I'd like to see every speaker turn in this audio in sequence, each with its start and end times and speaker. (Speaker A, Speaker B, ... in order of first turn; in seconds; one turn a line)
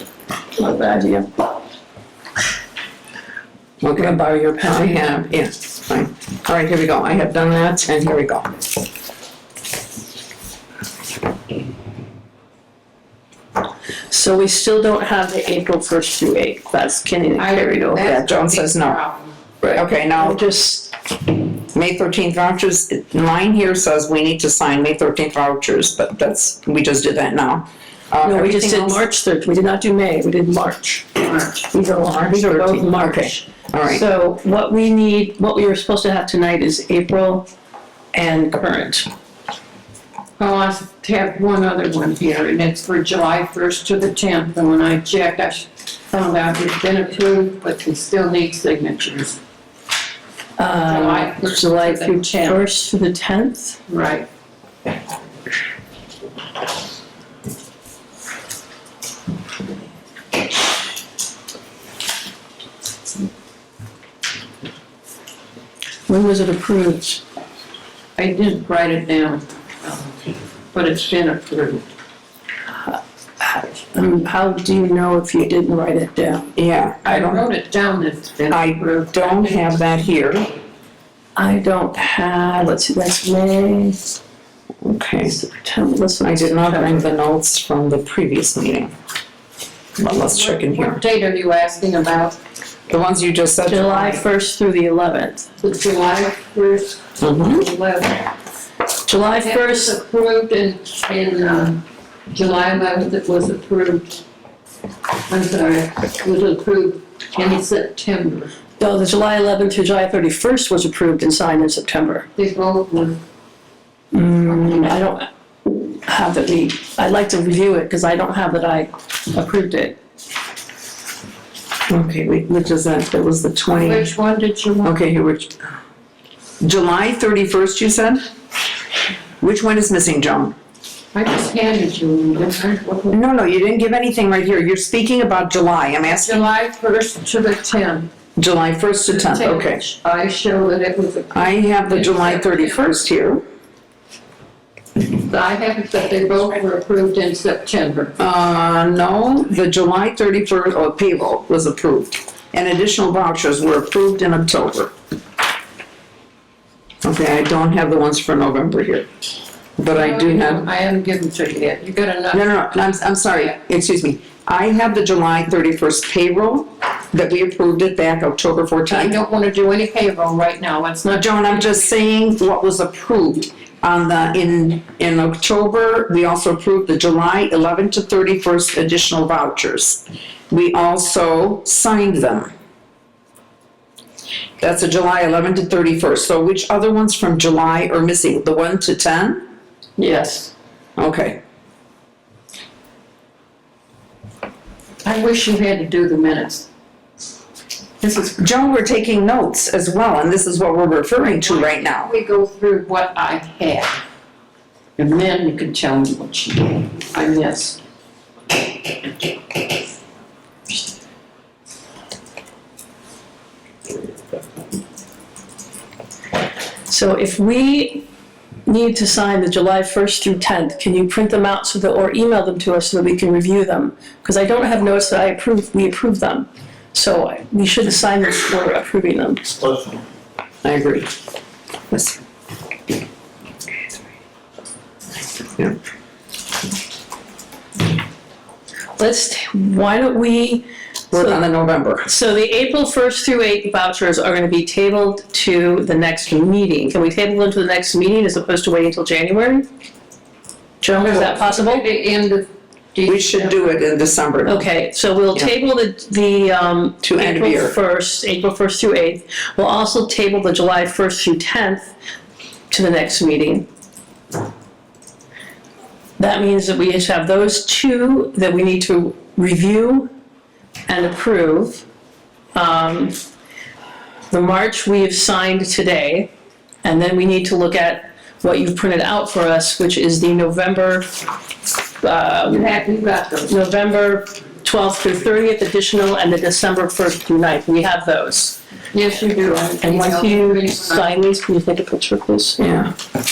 Speaker A: 0.6-1.3
Speaker B: 3.8-8.5
Speaker A: 4.0-5.3
Speaker A: 14.1-18.0
Speaker C: 17.4-19.4
Speaker B: 18.0-19.0
Speaker A: 19.6-20.9
Speaker B: 19.6-20.4
Speaker B: 21.7-29.0
Speaker A: 28.2-37.5
Speaker C: 31.2-31.7
Speaker B: 32.0-34.0
Speaker A: 38.1-39.1
Speaker C: 40.4-49.4
Speaker A: 50.6-53.8
Speaker C: 50.9-52.6
Speaker C: 53.9-54.3
Speaker A: 66.1-67.2
Speaker C: 68.2-71.8
Speaker A: 72.9-76.5
Speaker B: 76.6-77.4
Speaker C: 77.0-79.8
Speaker B: 78.5-80.5
Speaker A: 81.4-84.0
Speaker B: 84.8-85.4
Speaker A: 85.3-87.1
Speaker B: 86.2-88.9
Speaker B: 90.0-91.0
Speaker C: 90.1-92.4
Speaker B: 92.9-94.2
Speaker A: 93.7-95.5
Speaker C: 95.6-98.3
Speaker B: 97.2-97.7
Speaker A: 99.1-99.9
Speaker C: 99.2-104.2
Speaker C: 105.2-108.5
Speaker A: 108.8-112.3
Speaker C: 112.4-113.2
Speaker A: 114.1-120.0
Speaker B: 121.9-124.1
Speaker C: 123.8-125.0
Speaker B: 124.8-125.6
Speaker B: 126.6-128.3
Speaker B: 129.4-130.6
Speaker C: 131.1-133.2
Speaker B: 133.1-136.5
Speaker C: 136.1-138.1
Speaker B: 138.4-139.8
Speaker C: 139.1-142.9
Speaker B: 141.3-143.4
Speaker C: 145.0-148.2
Speaker B: 148.2-154.9
Speaker B: 157.0-159.1
Speaker B: 159.8-160.7
Speaker C: 159.9-162.7
Speaker B: 162.3-169.2
Speaker C: 168.9-171.8
Speaker B: 171.1-182.5
Speaker B: 184.6-189.4
Speaker A: 190.0-190.5
Speaker B: 191.0-191.4
Speaker C: 195.0-196.7
Speaker C: 198.0-198.4
Speaker B: 198.4-202.1
Speaker C: 201.4-204.0
Speaker C: 205.0-207.8
Speaker A: 216.9-218.1
Speaker A: 218.7-229.6
Speaker B: 230.6-231.1
Speaker B: 231.9-232.2
Speaker A: 239.0-241.4
Speaker B: 241.1-242.1
Speaker A: 242.1-249.7
Speaker A: 250.8-251.8
Speaker C: 250.9-253.7
Speaker B: 253.1-254.7
Speaker A: 254.4-261.9
Speaker B: 257.0-257.8
Speaker A: 262.7-263.7
Speaker A: 266.2-270.1
Speaker A: 270.9-271.8
Speaker A: 272.6-273.1
Speaker A: 274.3-276.3
Speaker A: 276.8-281.1
Speaker A: 282.0-282.8
Speaker C: 282.5-283.6
Speaker A: 283.5-288.6
Speaker C: 288.9-291.1
Speaker A: 289.8-292.6
Speaker B: 292.6-292.9